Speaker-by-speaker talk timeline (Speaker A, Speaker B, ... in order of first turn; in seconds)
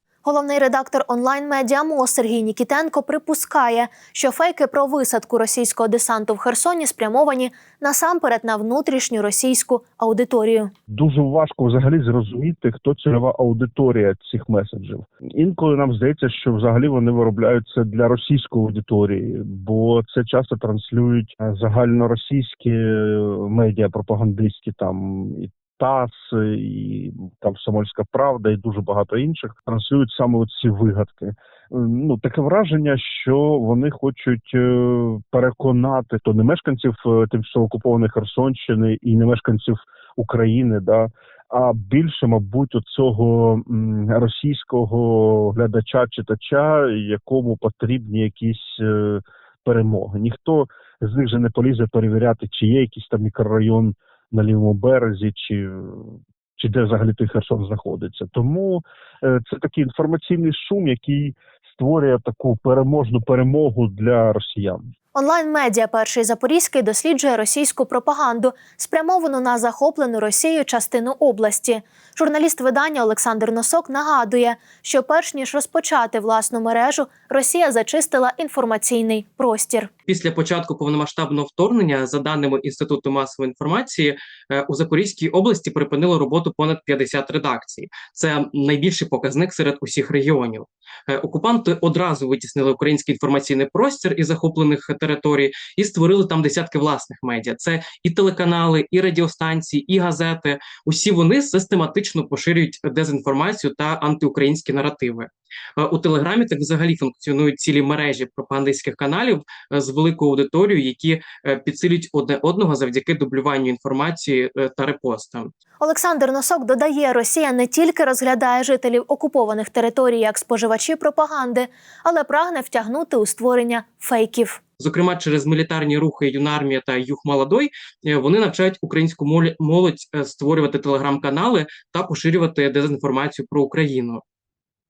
Speaker A: 0.2-10.7, 65.1-79.9, 115.8-124.6
Speaker B: 10.9-64.8
Speaker C: 80.1-115.5, 124.8-134.2